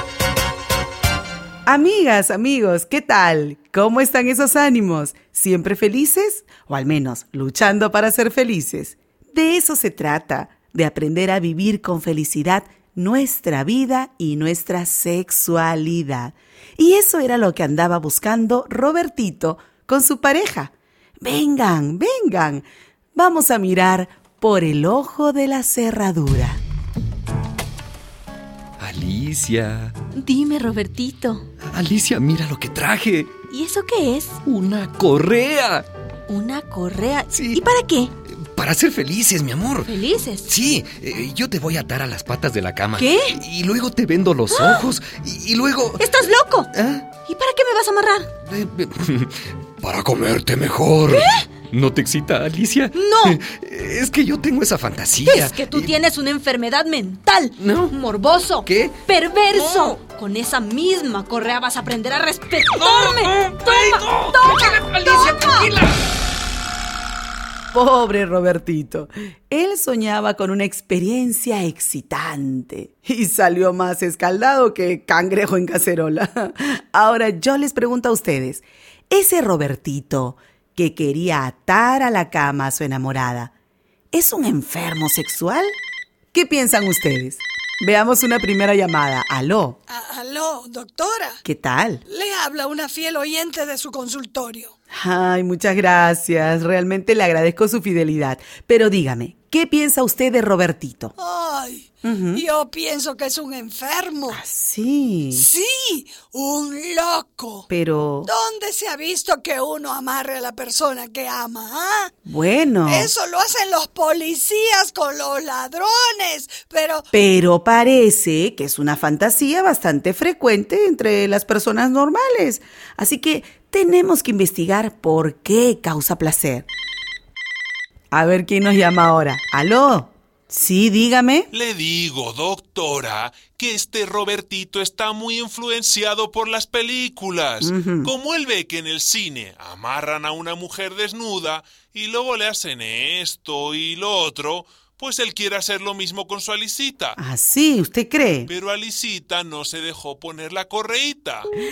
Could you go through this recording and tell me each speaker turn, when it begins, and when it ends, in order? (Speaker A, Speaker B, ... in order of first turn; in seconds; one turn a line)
Speaker A: 1.7-26.6
Speaker B: 28.8-30.0
Speaker C: 30.1-31.5
Speaker B: 31.7-33.4
Speaker C: 33.5-34.4
Speaker B: 34.5-35.9
Speaker C: 36.3-38.1
Speaker B: 37.3-37.6
Speaker B: 38.3-39.9
Speaker C: 39.9-40.5
Speaker B: 40.5-46.0
Speaker C: 43.0-43.4
Speaker C: 44.5-44.9
Speaker C: 46.0-48.3
Speaker B: 46.7-47.1
Speaker B: 48.5-55.9
Speaker C: 51.1-51.5
Speaker C: 52.9-53.4
Speaker C: 55.2-65.8
Speaker B: 57.6-58.0
Speaker B: 58.7-59.0
Speaker B: 59.5-59.9
Speaker B: 62.9-65.8
Speaker A: 67.7-83.5
Speaker A: 84.1-85.7
Speaker A: 86.3-89.8
Speaker D: 89.9-91.4
Speaker A: 91.4-92.0
Speaker D: 92.1-94.7
Speaker A: 94.9-101.1
Speaker D: 101.2-104.4
Speaker A: 102.0-102.4
Speaker A: 104.3-105.5
Speaker D: 105.3-107.7
Speaker A: 107.7-108.3
Speaker D: 108.3-112.1
Speaker A: 112.3-113.1
Speaker D: 112.8-117.0
Speaker A: 117.1-126.7
Speaker A: 128.1-131.5
Speaker E: 131.5-147.2
Speaker A: 137.6-138.1
Speaker A: 147.2-148.5
Speaker E: 148.5-151.5